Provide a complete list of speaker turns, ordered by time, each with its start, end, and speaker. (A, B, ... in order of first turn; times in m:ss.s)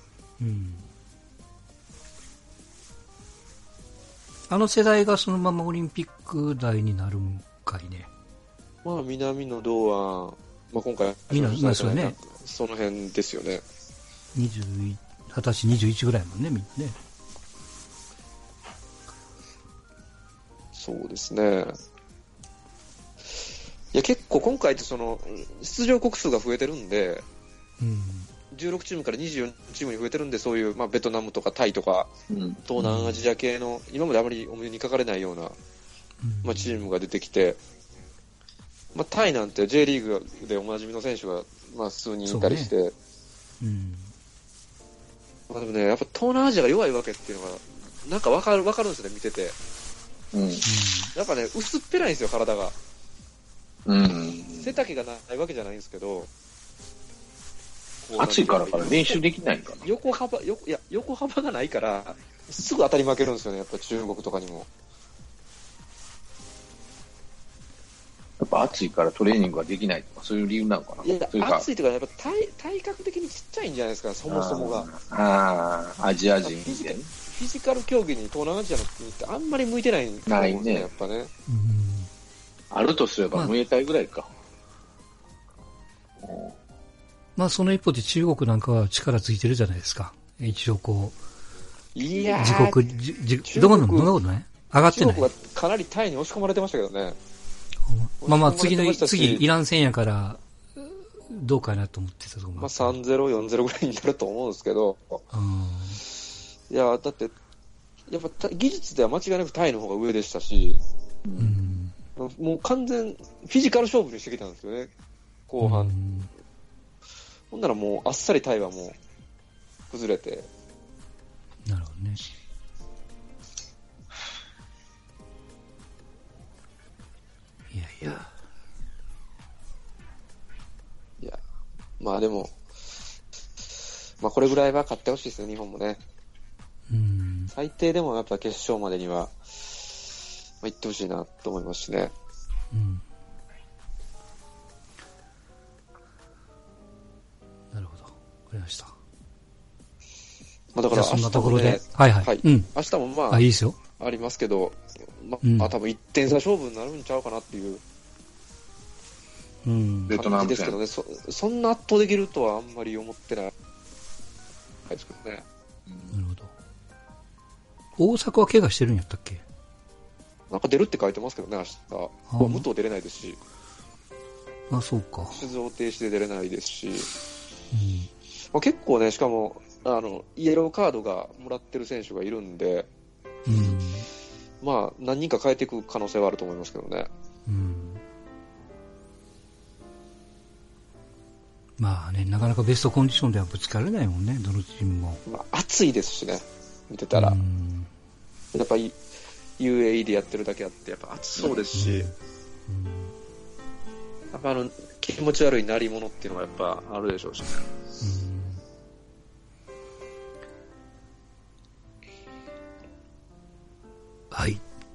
0:00.4-0:00.9 A
0:04.5-0:08.1 A
0:08.8-0:13.6 B
0:11.3-0:12.2 A
0:14.4-0:17.0 A
0:20.7-0:21.8 B
0:23.9-0:27.2 B
0:27.8-0:28.3 A
0:28.5-0:32.1 B
0:32.3-0:32.6 C
0:32.6-0:35.6 B
0:32.8-0:33.2 A
0:36.2-0:36.9 A
0:36.4-0:37.6 B
0:38.9-0:42.9 B
0:42.3-0:42.7 A
0:43.6-0:44.1 A
0:45.5-0:49.6 B
0:50.3-0:50.7 C
0:50.6-0:51.1 A
0:51.2-0:52.8 B
0:53.9-0:54.8 C
0:54.6-0:56.3 B
0:58.0-0:59.2 B
0:58.2-0:59.9 C
0:59.8-1:04.7 B
1:08.4-1:11.6 C
1:11.0-1:14.9 B
1:14.3-1:17.1 C
1:16.4-1:21.3 B
1:20.3-1:20.9 C
1:21.5-1:22.1 A
1:22.7-1:24.3 C
1:26.2-1:26.5 C
1:27.4-1:31.2 A
1:32.0-1:32.8 B
1:32.3-1:35.3 A
1:33.4-1:34.2 B
1:34.9-1:37.2 B
1:37.8-1:43.0 A
1:38.2-1:39.5 B
1:42.6-1:45.2 B
1:45.3-1:46.0 A
1:46.7-1:47.3 B
1:48.1-1:50.8 B
1:51.2-1:51.6 C
1:51.4-1:52.0 A
1:52.2-1:54.9 B
1:55.5-1:56.0 B
1:55.6-1:56.3 A
1:57.5-1:59.0 B
1:59.9-2:00.5 B
2:01.6-2:02.2 A
2:07.7-2:08.3 A
2:12.0-2:12.5 B
2:14.2-2:16.0 B
2:16.9-2:17.5 A
2:17.5-2:22.1 B
2:22.7-2:23.0 A
2:27.7-2:29.0 A
2:30.8-2:37.8 B
2:30.9-2:32.7 A
2:33.3-2:33.8 A
2:35.4-2:35.7 A
2:39.6-2:40.2 A
2:40.1-2:40.8 C
2:40.1-2:43.5 B
2:44.9-2:45.4 B
2:46.1-2:46.5 A
2:48.0-2:49.4 A
2:50.5-2:53.4 B
2:52.3-2:52.7 A
2:54.7-2:55.4 A
2:55.3-2:57.1 B
2:57.7-2:58.1 A
2:58.5-3:02.9 B
3:03.5-3:04.1 A
3:03.5-3:03.8 B
3:04.6-3:07.1 B
3:07.5-3:08.0 A
3:11.8-3:15.2 A
3:15.3-3:17.4 B
3:17.1-3:17.9 A
3:18.5-3:19.0 B
3:19.6-3:22.1 B
3:21.7-3:22.1 A
3:22.7-3:23.1 A
3:24.3-3:27.7 B
3:28.0-3:28.6 A
3:34.3-3:34.6 A